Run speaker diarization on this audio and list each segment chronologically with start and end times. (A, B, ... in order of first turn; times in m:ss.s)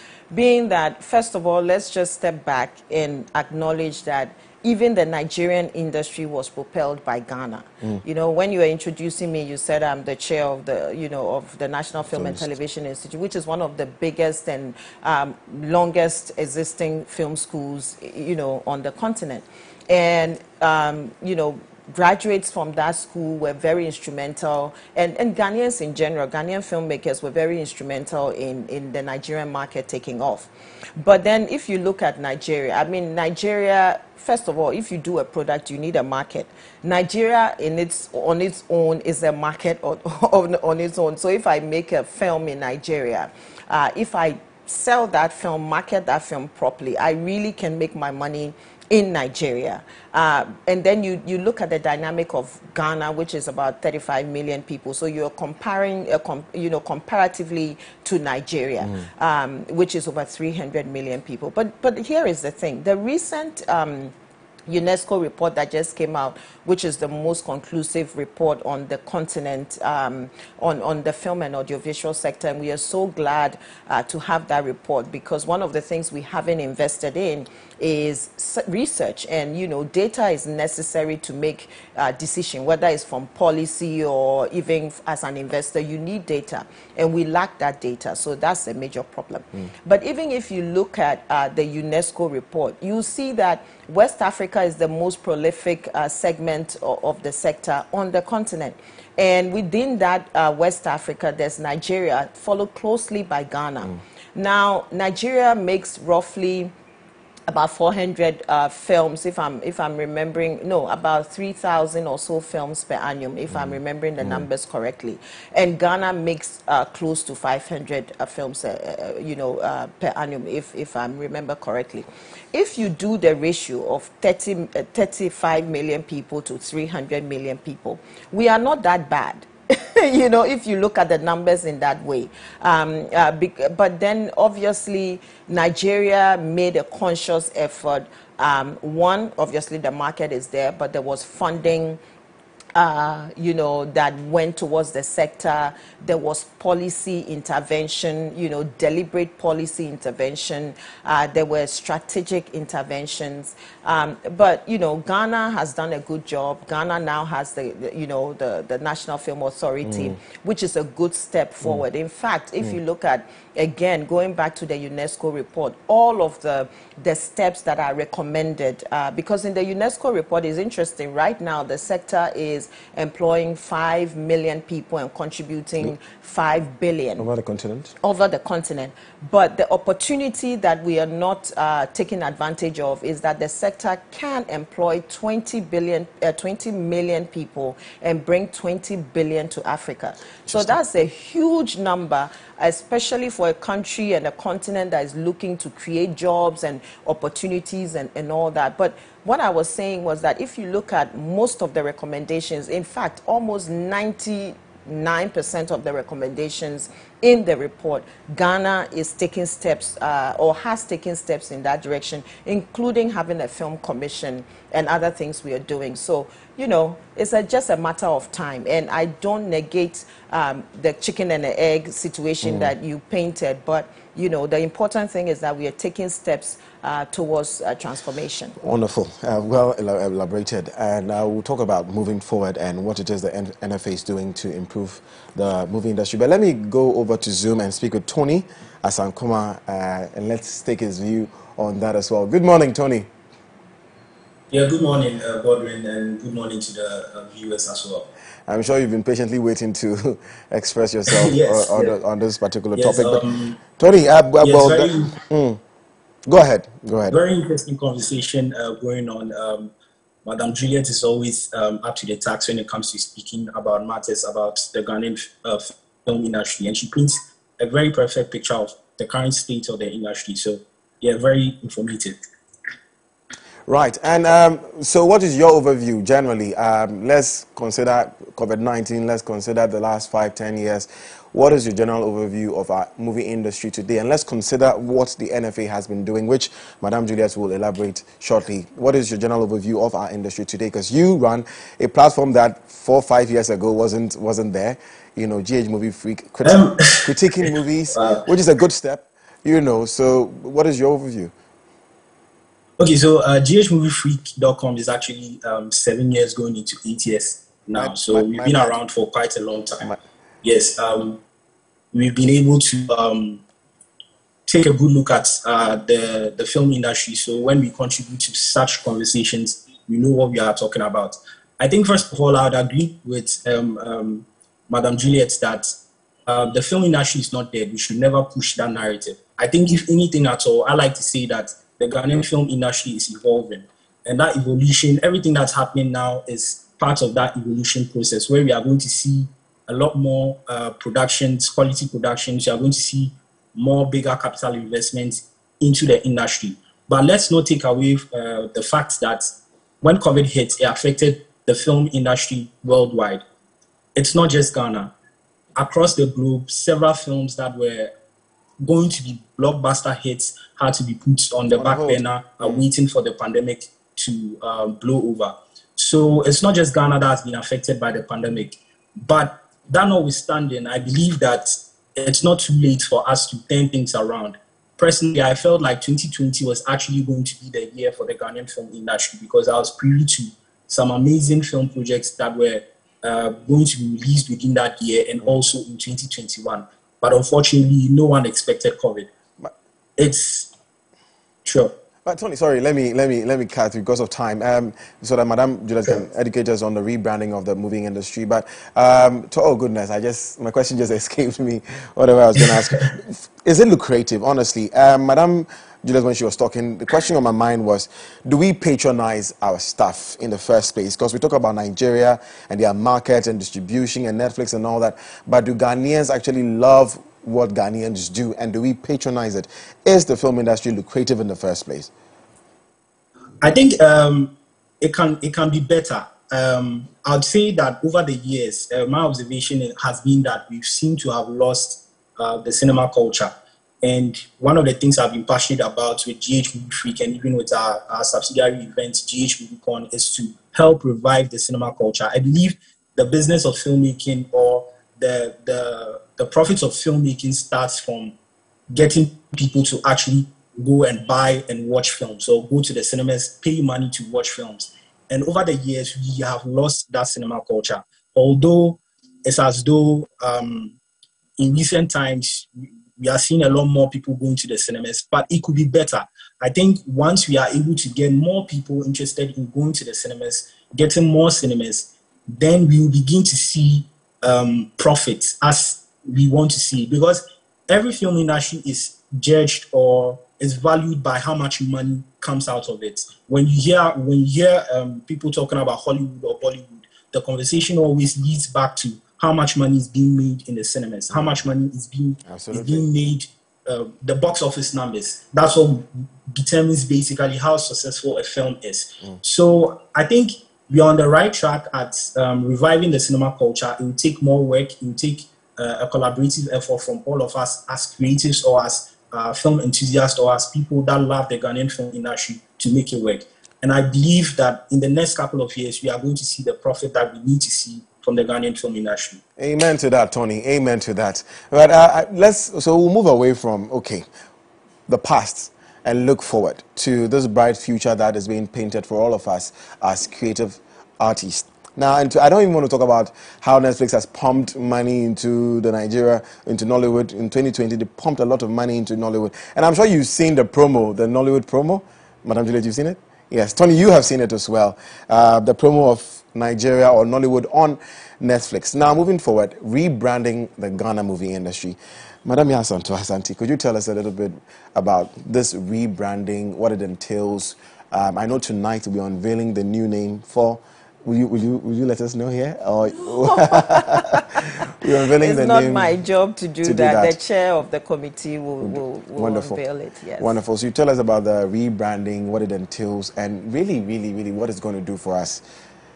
0:00.3-1:04.1 A
0:12.1-0:12.4 B
1:04.7-1:46.7 A
1:47.5-2:22.0 A
1:53.6-1:54.5 B
2:22.8-2:57.3 A
2:39.9-2:40.1 B
2:57.2-2:58.0 B
2:58.0-3:48.6 A
3:10.5-3:10.8 B
3:42.4-3:42.7 B
3:48.6-4:03.1 B
4:04.5-4:08.1 C
4:08.5-4:15.6 B
4:11.1-4:11.9 C
4:12.8-4:13.6 C
4:14.4-4:15.2 C
4:16.3-4:17.2 B
4:17.1-4:19.7 C
4:20.2-4:32.2 C
4:33.7-5:01.3 B
4:56.4-4:58.2 C
5:02.8-5:09.9 C
5:07.7-5:08.8 B
5:10.4-5:11.2 C
5:11.9-5:13.4 C
5:14.5-5:25.7 C
5:26.3-5:49.3 C
5:49.8-5:53.2 C
5:54.0-5:54.9 C
5:55.6-5:57.9 C
5:58.6-6:29.1 C
6:01.5-6:02.6 B
6:30.0-6:30.5 C
6:31.4-6:31.7 C
6:32.0-7:01.9 B
7:03.4-7:28.2 C
7:28.7-7:40.8 C
7:41.4-8:39.2 C
8:11.1-8:11.4 B
8:12.2-8:12.9 B
8:39.4-8:44.1 B
8:44.9-9:25.9 B
9:23.0-9:24.4 A
9:25.2-9:30.4 A
9:26.6-9:27.2 B
9:28.6-9:29.6 B
9:30.2-9:35.4 B